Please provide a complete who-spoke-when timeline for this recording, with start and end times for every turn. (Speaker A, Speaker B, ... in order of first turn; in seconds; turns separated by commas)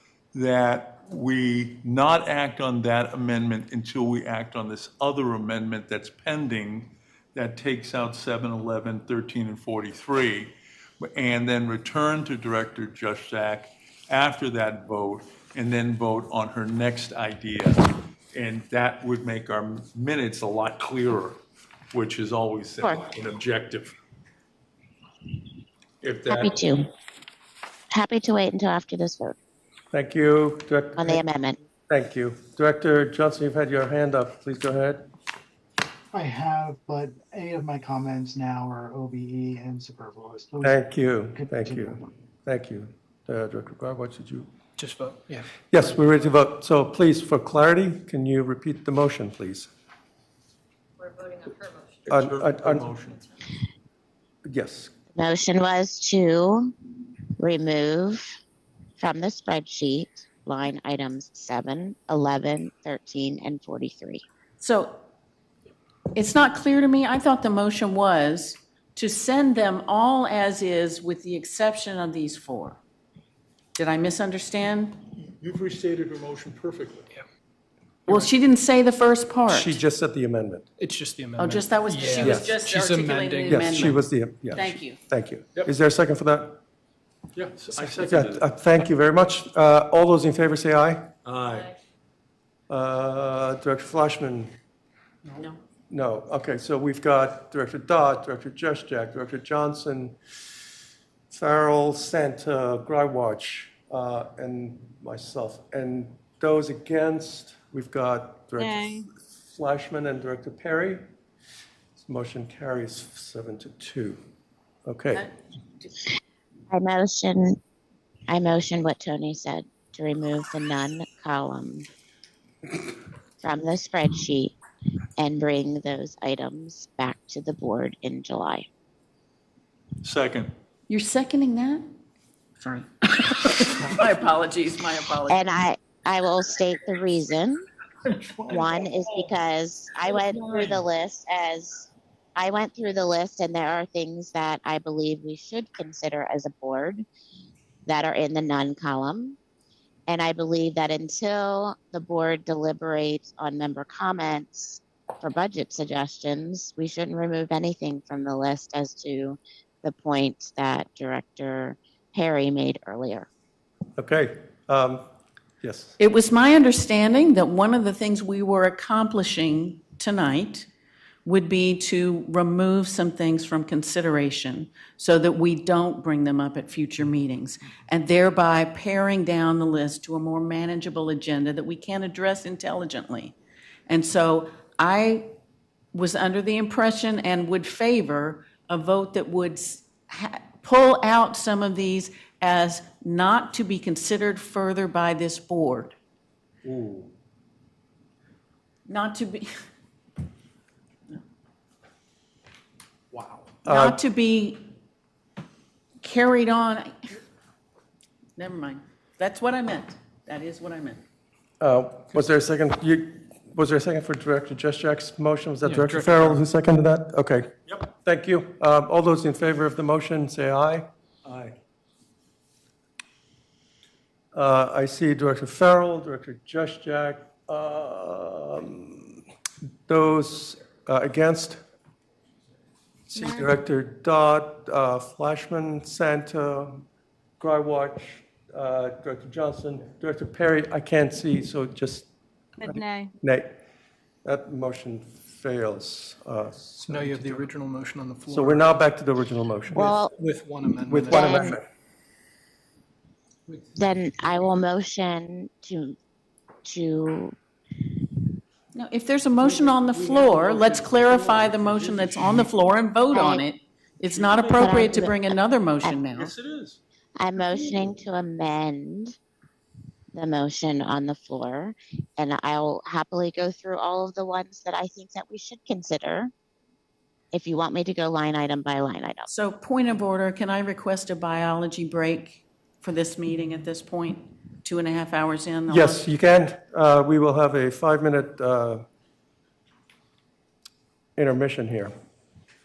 Speaker A: 0.3-21.4, Speaker A: 21.9-23.9, Speaker A: 26.0-26.5, Speaker B: 26.3-26.9, Speaker B: 27.9-29.4, Speaker C: 29.9-31.2, Speaker B: 31.0-31.6, Speaker C: 31.9-35.1, Speaker D: 36.1-40.8, Speaker C: 40.6-44.5, Speaker D: 41.4-42.0, Speaker E: 44.8-45.5, Speaker C: 45.7-49.7, Speaker F: 51.0-51.9, Speaker A: 52.0-53.2, Speaker C: 52.1-52.9, Speaker C: 54.5-54.9, Speaker B: 55.1-56.7, Speaker B: 57.4-58.3, Speaker B: 59.0-64.2, Speaker G: 64.6-65.0, Speaker G: 66.2-72.8, Speaker G: 73.8-75.0, Speaker A: 75.2-77.1, Speaker G: 78.1-79.8, Speaker C: 79.5-80.7, Speaker E: 80.8-84.0, Speaker G: 81.4-85.0, Speaker C: 82.2-82.6, Speaker C: 83.5-86.6, Speaker A: 87.4-88.4, Speaker C: 88.0-91.1, Speaker A: 91.2-91.7, Speaker C: 92.7-94.5, Speaker C: 95.9-100.2, Speaker C: 101.3-111.0, Speaker F: 108.6-109.0, Speaker C: 112.0-114.2, Speaker C: 114.9-115.3, Speaker G: 115.1-115.9, Speaker B: 116.7-117.6, Speaker B: 118.3-121.9, Speaker B: 123.4-124.6, Speaker B: 125.2-128.6, Speaker A: 130.0-130.5, Speaker G: 130.9-131.9, Speaker G: 132.6-135.5, Speaker B: 135.3-137.6, Speaker B: 138.5-147.1, Speaker B: 147.8-149.4, Speaker B: 150.1-163.3, Speaker C: 164.0-165.0, Speaker C: 165.6-165.9, Speaker G: 166.0-170.7, Speaker G: 171.2-183.3, Speaker G: 183.9-185.3, Speaker G: 185.9-195.9, Speaker A: 196.6-197.1, Speaker G: 198.9-199.5, Speaker G: 203.6-204.6, Speaker C: 203.7-204.0, Speaker G: 206.0-207.2, Speaker G: 208.4-211.0, Speaker C: 211.6-220.9, Speaker E: 215.6-216.4, Speaker A: 221.2-221.6, Speaker C: 224.3-229.2, Speaker C: 229.9-231.6, Speaker C: 233.1-236.8, Speaker F: 233.2-233.5, Speaker C: 237.4-242.1, Speaker C: 242.7-243.6, Speaker F: 242.7-243.1, Speaker C: 244.2-247.4, Speaker E: 246.8-248.8, Speaker C: 248.3-250.0, Speaker B: 249.7-250.1, Speaker E: 249.8-251.4, Speaker C: 250.8-251.6, Speaker B: 251.1-251.6, Speaker B: 253.7-256.0, Speaker B: 256.6-257.4, Speaker G: 258.7-266.3, Speaker A: 259.4-262.4, Speaker B: 263.1-263.4, Speaker A: 264.1-264.8, Speaker B: 264.5-266.0, Speaker A: 266.1-266.8, Speaker B: 267.2-269.2, Speaker B: 270.1-276.3, Speaker B: 277.3-279.3, Speaker G: 279.3-286.0, Speaker C: 285.7-288.8, Speaker C: 291.2-291.9